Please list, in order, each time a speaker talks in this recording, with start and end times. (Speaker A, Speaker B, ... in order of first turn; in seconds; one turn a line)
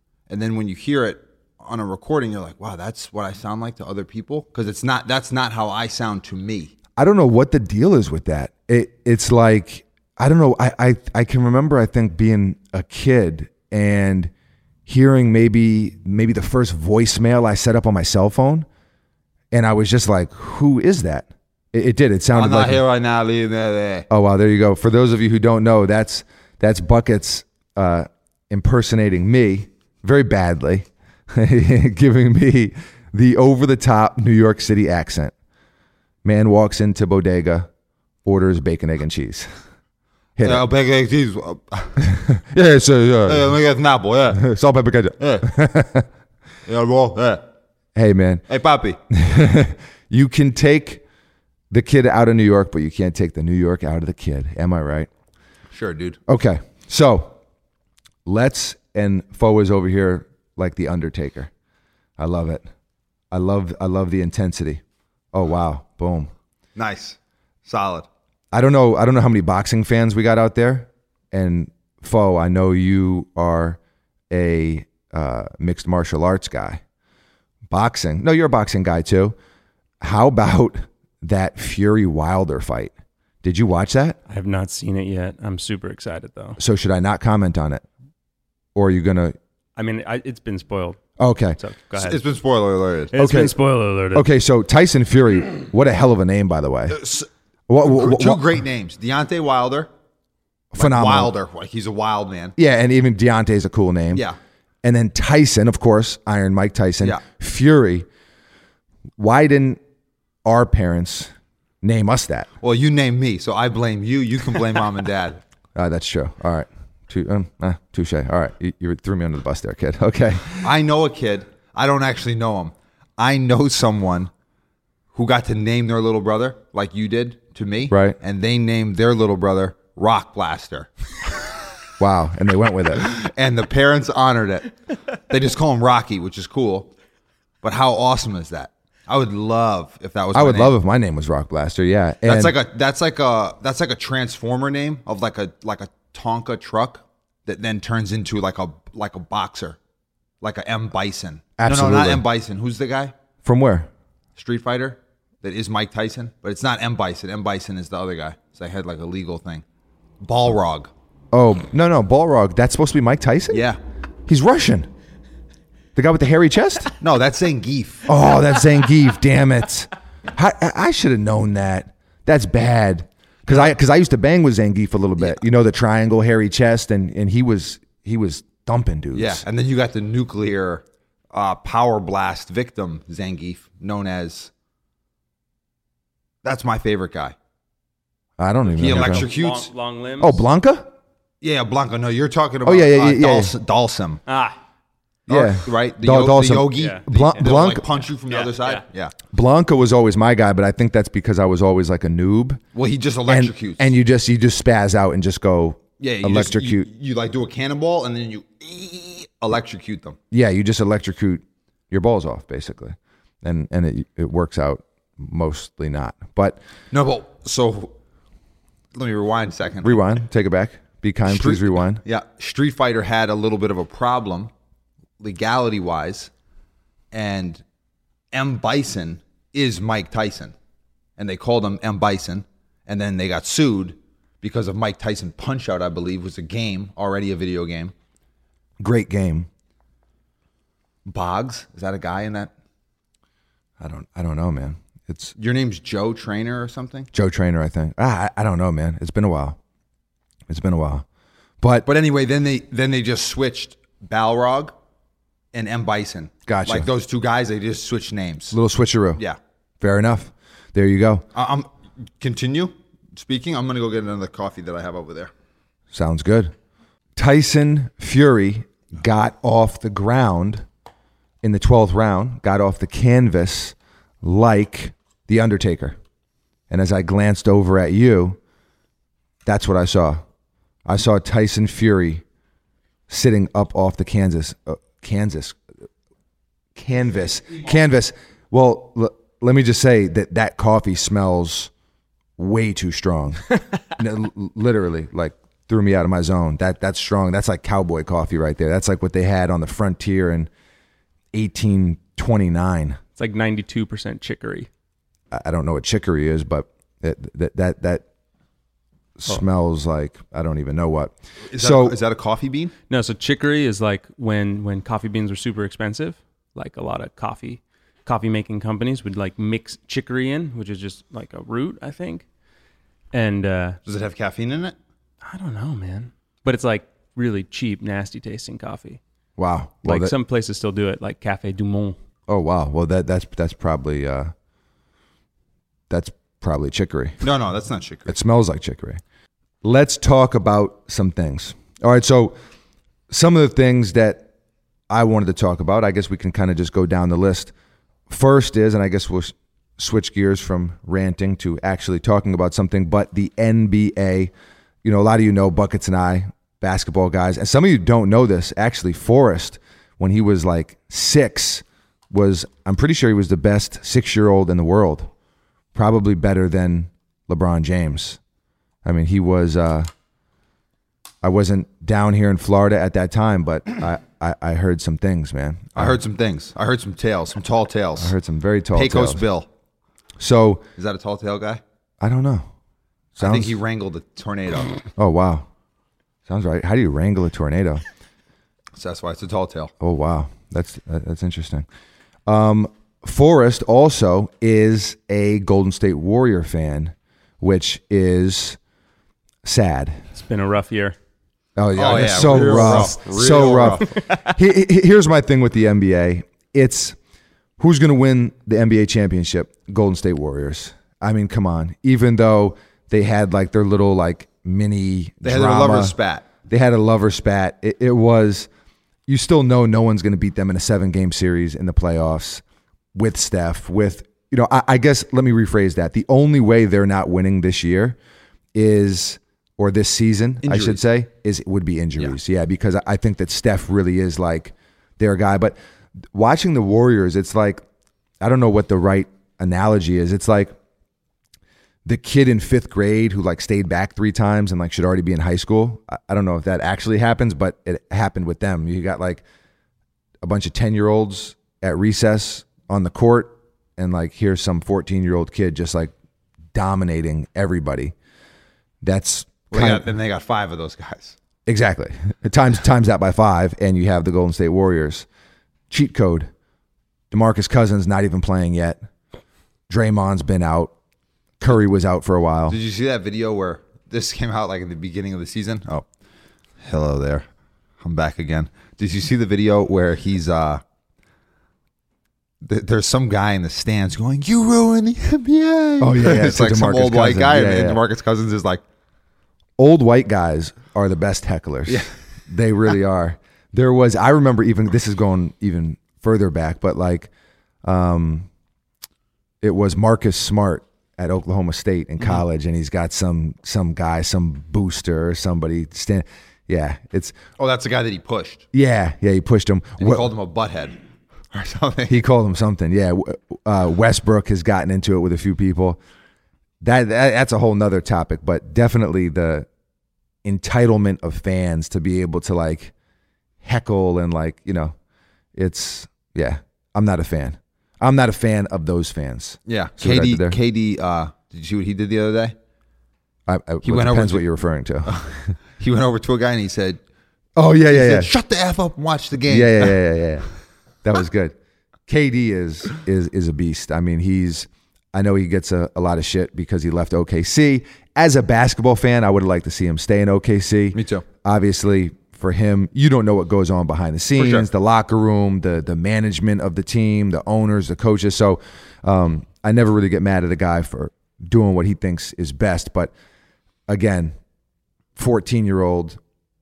Speaker A: 0.3-6.7
Speaker B: 7.0-14.3
Speaker B: 14.8-18.6
Speaker B: 19.5-22.8
Speaker A: 22.3-24.1
Speaker B: 24.1-35.3
Speaker B: 36.2-37.7
Speaker B: 38.2-39.5
Speaker B: 40.4-40.6
Speaker A: 40.4-42.1
Speaker B: 42.0-43.5
Speaker A: 43.2-44.4
Speaker B: 44.3-46.1
Speaker A: 45.2-45.5
Speaker A: 46.6-47.4
Speaker B: 47.9-48.4
Speaker A: 48.5-49.0
Speaker B: 49.1-51.0
Speaker B: 51.7-55.1
Speaker A: 55.7-56.2
Speaker B: 56.3-57.3
Speaker B: 58.2-61.5
Speaker B: 62.2-62.6
Speaker B: 63.3-64.8
Speaker B: 65.3-66.3
Speaker A: 66.8-68.1
Speaker B: 68.5-73.8
Speaker B: 74.3-76.8
Speaker B: 77.7-79.3
Speaker B: 80.0-84.2
Speaker C: 84.3-86.6
Speaker B: 86.6-87.8
Speaker B: 88.7-89.3
Speaker C: 89.8-91.0
Speaker B: 91.2-91.6
Speaker C: 91.6-92.2
Speaker A: 92.0-93.1
Speaker C: 93.1-94.3
Speaker B: 93.2-93.5
Speaker B: 94.1-97.0
Speaker A: 96.9-97.3
Speaker B: 97.7-98.4
Speaker A: 97.8-99.9
Speaker B: 100.7-101.3
Speaker A: 100.8-102.5
Speaker B: 102.5-104.2
Speaker B: 104.8-108.0
Speaker B: 109.2-109.8
Speaker B: 110.4-112.5
Speaker A: 112.6-115.4
Speaker B: 115.7-120.7
Speaker A: 120.6-124.3
Speaker A: 125.1-131.3
Speaker B: 127.9-128.2
Speaker B: 132.0-133.1
Speaker A: 133.0-134.7
Speaker A: 135.3-136.9
Speaker A: 137.6-140.7
Speaker B: 140.3-142.5
Speaker A: 142.2-149.8
Speaker A: 150.4-153.1
Speaker B: 151.6-152.2
Speaker B: 153.4-153.9
Speaker A: 154.3-159.6
Speaker A: 160.2-160.9
Speaker B: 161.3-163.6
Speaker A: 163.5-163.8
Speaker B: 164.3-164.9
Speaker B: 165.9-166.9
Speaker A: 167.0-168.1
Speaker B: 168.1-179.4
Speaker A: 173.5-173.7
Speaker A: 179.1-184.5
Speaker A: 186.4-187.3
Speaker B: 188.4-189.3
Speaker A: 188.8-189.7
Speaker C: 188.8-190.4
Speaker B: 190.2-190.9
Speaker A: 191.4-194.2
Speaker B: 192.6-193.5
Speaker C: 194.3-194.6
Speaker A: 195.3-199.1
Speaker B: 195.3-197.9
Speaker C: 196.8-197.4
Speaker C: 198.2-198.8
Speaker B: 199.3-202.6
Speaker A: 202.7-203.9
Speaker B: 203.3-206.8
Speaker A: 206.0-210.2
Speaker B: 210.3-216.6
Speaker A: 216.9-217.9
Speaker A: 218.9-220.0
Speaker B: 219.8-222.0
Speaker A: 221.2-224.5
Speaker A: 225.2-226.3
Speaker A: 227.1-227.6
Speaker A: 228.3-230.5
Speaker A: 231.2-237.9
Speaker B: 238.8-239.5
Speaker A: 241.1-242.5
Speaker B: 243.8-245.3
Speaker A: 245.3-247.1
Speaker B: 247.1-249.6
Speaker B: 250.5-251.0
Speaker B: 251.6-251.9
Speaker A: 251.8-254.7
Speaker A: 255.5-258.6
Speaker B: 256.5-256.9
Speaker B: 258.5-259.2
Speaker B: 259.8-261.2
Speaker A: 261.3-261.7
Speaker A: 262.2-265.3
Speaker B: 265.9-266.5
Speaker B: 267.1-270.6
Speaker B: 271.4-276.0
Speaker B: 276.7-278.4
Speaker B: 279.4-280.2
Speaker B: 280.9-282.2
Speaker B: 283.1-285.6
Speaker B: 286.8-291.7
Speaker B: 292.4-300.5
Speaker B: 301.3-303.0
Speaker C: 303.2-304.7
Speaker B: 305.3-308.0
Speaker B: 309.2-312.0
Speaker A: 311.5-312.7
Speaker C: 312.9-322.2
Speaker C: 323.1-323.8
Speaker A: 323.8-324.8
Speaker C: 325.2-329.0
Speaker B: 329.4-330.1
Speaker C: 329.8-332.0
Speaker B: 332.3-334.3
Speaker B: 335.9-337.2
Speaker A: 337.2-338.1
Speaker B: 338.1-339.0
Speaker B: 339.6-342.3
Speaker B: 343.1-344.3
Speaker B: 344.9-347.5
Speaker B: 348.1-354.3
Speaker B: 354.8-365.1
Speaker B: 365.7-368.2
Speaker B: 368.8-369.9
Speaker B: 371.2-376.0
Speaker A: 375.8-378.1
Speaker B: 378.0-379.2
Speaker A: 378.7-379.5
Speaker B: 380.2-380.6
Speaker A: 380.8-381.6
Speaker B: 382.0-382.5
Speaker B: 383.1-383.6
Speaker A: 383.2-384.8
Speaker B: 385.0-385.5
Speaker B: 386.3-387.8
Speaker A: 388.8-389.7
Speaker B: 389.8-391.6
Speaker B: 392.3-398.6
Speaker B: 399.4-400.0
Speaker C: 400.1-400.9
Speaker B: 401.6-407.0
Speaker A: 401.7-403.9
Speaker C: 402.2-402.8
Speaker C: 404.0-404.2
Speaker B: 407.6-415.9
Speaker A: 415.2-416.2
Speaker B: 416.4-418.5
Speaker B: 419.1-422.4
Speaker B: 422.9-428.0
Speaker B: 428.5-435.6
Speaker A: 430.4-430.8
Speaker B: 436.1-437.6
Speaker B: 438.2-440.5
Speaker B: 441.8-449.2
Speaker B: 450.2-455.9
Speaker B: 456.5-457.9
Speaker B: 458.8-459.9
Speaker A: 459.5-461.2
Speaker B: 461.4-465.1
Speaker B: 465.7-466.3
Speaker B: 467.1-468.8
Speaker B: 469.7-470.7
Speaker B: 471.4-472.6
Speaker A: 472.5-475.8
Speaker A: 476.6-477.2
Speaker A: 477.8-480.6
Speaker A: 482.4-488.6
Speaker B: 485.8-487.8
Speaker B: 489.6-497.1
Speaker B: 497.6-498.3
Speaker B: 499.4-507.1
Speaker A: 507.4-508.4
Speaker B: 508.5-510.1
Speaker A: 509.8-510.8
Speaker A: 511.3-512.0
Speaker B: 511.9-515.8
Speaker B: 516.6-519.5
Speaker B: 520.2-522.7
Speaker B: 523.4-524.7
Speaker B: 525.3-530.4
Speaker A: 529.5-532.4
Speaker B: 533.3-535.3
Speaker A: 533.6-534.2
Speaker A: 534.9-536.8
Speaker B: 537.4-538.1
Speaker A: 537.7-539.8
Speaker B: 539.3-540.3
Speaker B: 540.8-541.3
Speaker B: 541.9-562.9
Speaker A: 550.7-551.0
Speaker A: 554.1-554.5
Speaker B: 563.7-564.1
Speaker B: 565.0-566.0